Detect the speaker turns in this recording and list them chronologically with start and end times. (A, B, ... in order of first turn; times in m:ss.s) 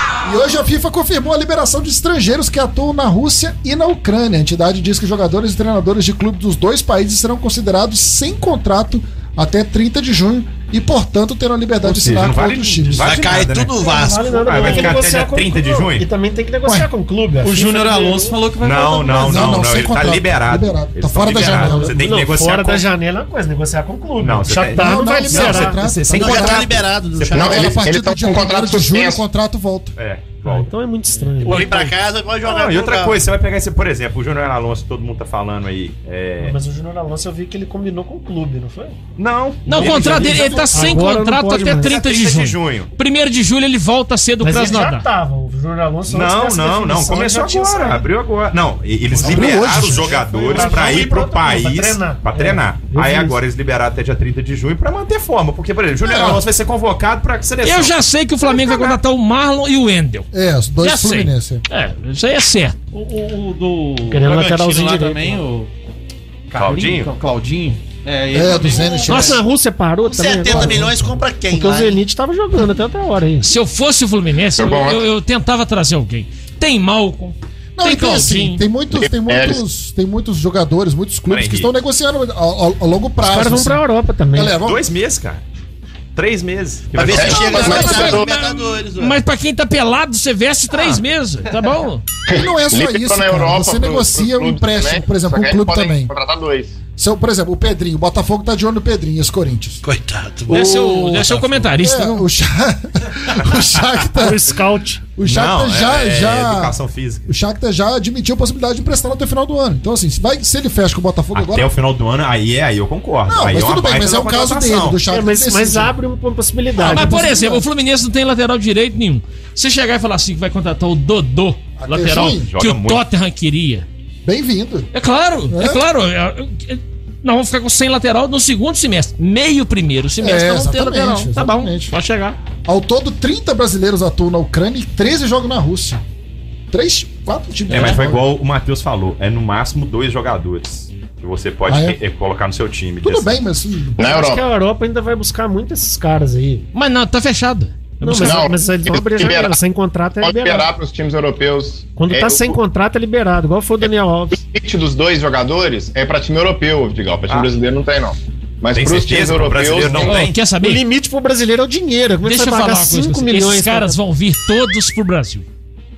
0:00.2-0:13.2 A
0:11.8-0:16.1 B
0:13.0-0:15.0 C
0:13.8-0:18.4 D
0:17.4-0:19.6 E
0:18.6-0:22.8 B
0:19.2-0:22.0 A
0:21.4-0:25.8 D
0:24.2-0:27.5 B
0:24.7-0:29.9 A
0:26.1-0:27.8 C
0:27.3-0:29.2 F
0:30.0-0:30.7 B
0:30.4-0:31.8 D
0:31.4-0:33.3 C
0:32.4-0:36.6 B
0:36.4-0:39.0 D
0:39.2-0:41.0 B
0:39.6-0:41.9 D
0:39.7-0:45.0 G
0:41.8-0:42.9 B
0:44.4-0:48.1 D
0:46.1-0:58.0 B
0:49.2-0:53.4 D
0:49.2-0:50.2 A
0:50.3-0:50.6 E
0:57.6-1:00.3 G
1:00.3-1:01.6 A
1:00.8-1:02.8 G
1:02.9-1:05.7 E
1:04.1-1:05.4 D
1:06.5-1:09.4 E
1:06.5-1:07.1 B
1:08.3-1:09.4 A
1:09.1-1:13.5 D
1:10.0-1:12.0 C
1:13.4-1:18.6 G
1:14.6-1:15.0 F
1:17.8-1:23.8 A
1:19.0-1:19.6 F
1:21.3-1:21.7 B
1:23.2-1:24.6 D
1:24.3-1:24.8 A
1:24.6-1:25.4 B
1:26.1-1:28.0 B
1:26.9-1:29.2 C
1:27.1-1:28.3 F
1:27.3-1:28.2 A
1:28.0-1:32.0 G
1:32.3-1:36.8 F
1:32.3-1:36.1 A
1:37.0-1:39.8 A
1:39.8-1:40.8 C
1:40.5-1:42.2 G
1:40.5-1:44.5 A
1:44.2-1:45.0 D
1:45.2-1:51.7 A
1:45.2-1:47.2 B
1:51.3-1:55.0 B
1:53.3-1:55.9 A
1:55.1-1:57.4 D
1:56.8-1:57.6 A
1:56.8-2:03.8 G
2:01.8-2:02.5 A
2:02.4-2:03.0 B
2:04.2-2:04.9 A
2:04.9-2:12.4 G
2:05.5-2:05.8 A
2:10.2-2:11.9 A
2:12.6-2:16.0 A
2:16.7-2:18.2 A
2:17.7-2:23.3 B
2:21.7-2:22.0 A
2:23.0-2:24.0 A
2:24.0-2:24.4 F
2:24.0-2:26.6 D
2:26.7-2:28.4 G
2:28.0-2:30.7 D
2:28.2-2:29.6 F
2:30.2-2:32.6 F
2:32.0-2:34.4 D
2:34.3-2:40.3 F
2:38.7-2:40.4 B
2:40.0-2:40.8 G
2:40.6-2:44.0 D
2:42.2-2:45.4 G